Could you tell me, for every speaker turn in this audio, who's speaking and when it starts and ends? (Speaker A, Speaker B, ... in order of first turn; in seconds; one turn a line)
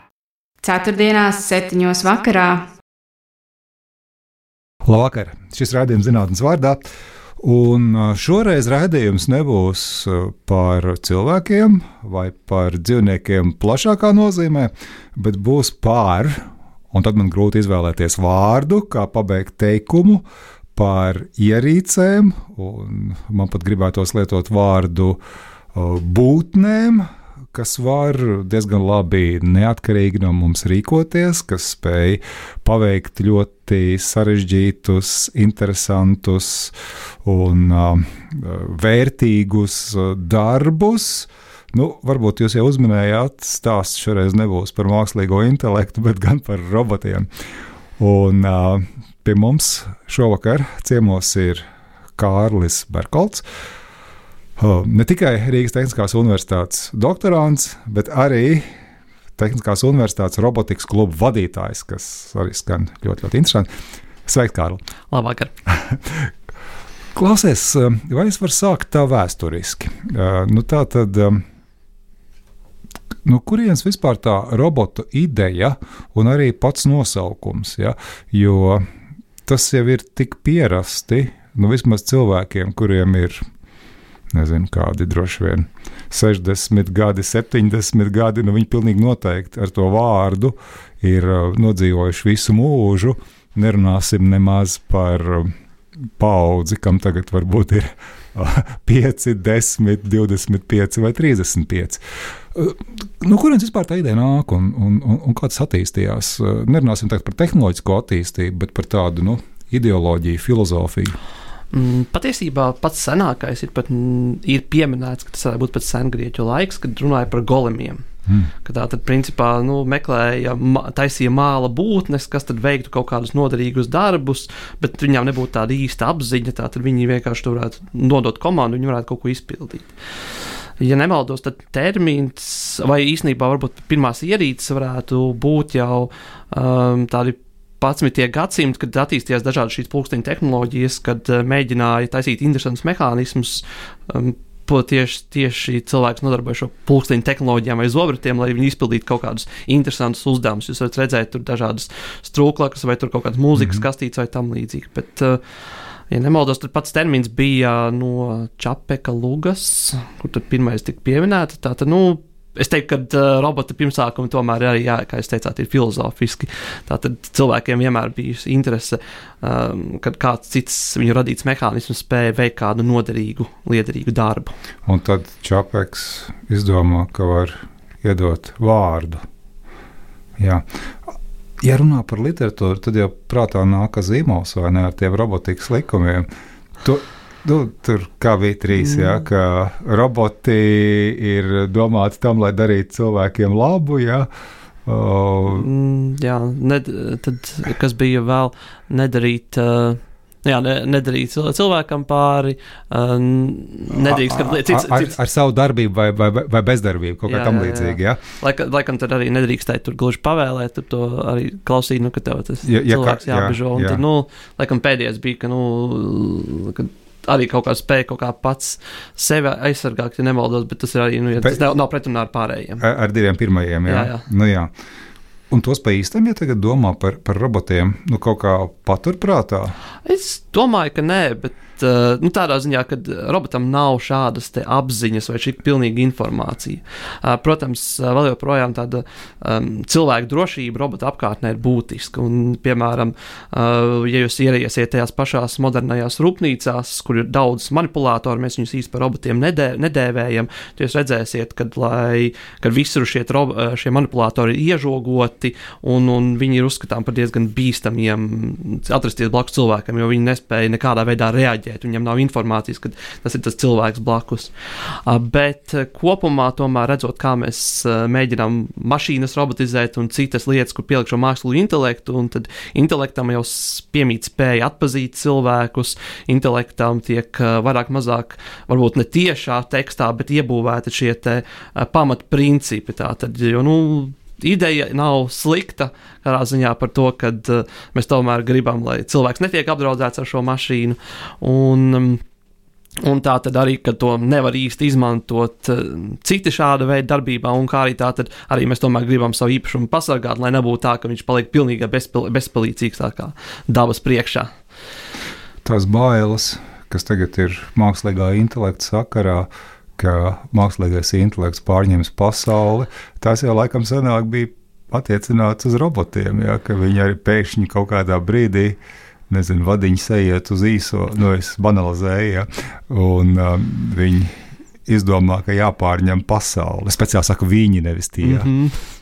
Speaker A: 0.6-2.6
Speaker B: 4.8-6.8
Speaker B: 7.4-20.2
Speaker B: 20.8-25.2
Speaker B: 25.7-47.3
Speaker B: 48.0-51.6
Speaker B: 52.2-53.4
Speaker B: 54.6-58.7
Speaker B: 59.4-63.7
Speaker B: 64.2-64.8
Speaker C: 65.1-65.5
Speaker B: 65.7-66.3
Speaker B: 67.1-71.4
Speaker B: 73.2-78.8
Speaker B: 79.5-83.4
Speaker B: 84.3-95.5
Speaker B: 96.2-102.0
Speaker B: 102.5-111.2
Speaker C: 111.7-118.0
Speaker C: 118.6-129.9
Speaker C: 130.8-155.4
Speaker C: 156.1-174.5
Speaker B: 174.8-179.2
Speaker B: 180.4-186.3
Speaker B: 186.8-194.3
Speaker C: 188.8-189.2
Speaker B: 194.8-195.7
Speaker C: 195.5-205.1
Speaker B: 203.9-208.2
Speaker C: 207.3-222.8
Speaker B: 212.7-214.0
Speaker B: 222.8-224.7
Speaker C: 223.9-224.2
Speaker B: 225.5-229.8
Speaker C: 230.0-292.2
Speaker C: 293.0-304.5
Speaker B: 305.6-318.8
Speaker B: 319.3-328.5
Speaker C: 328.2-328.8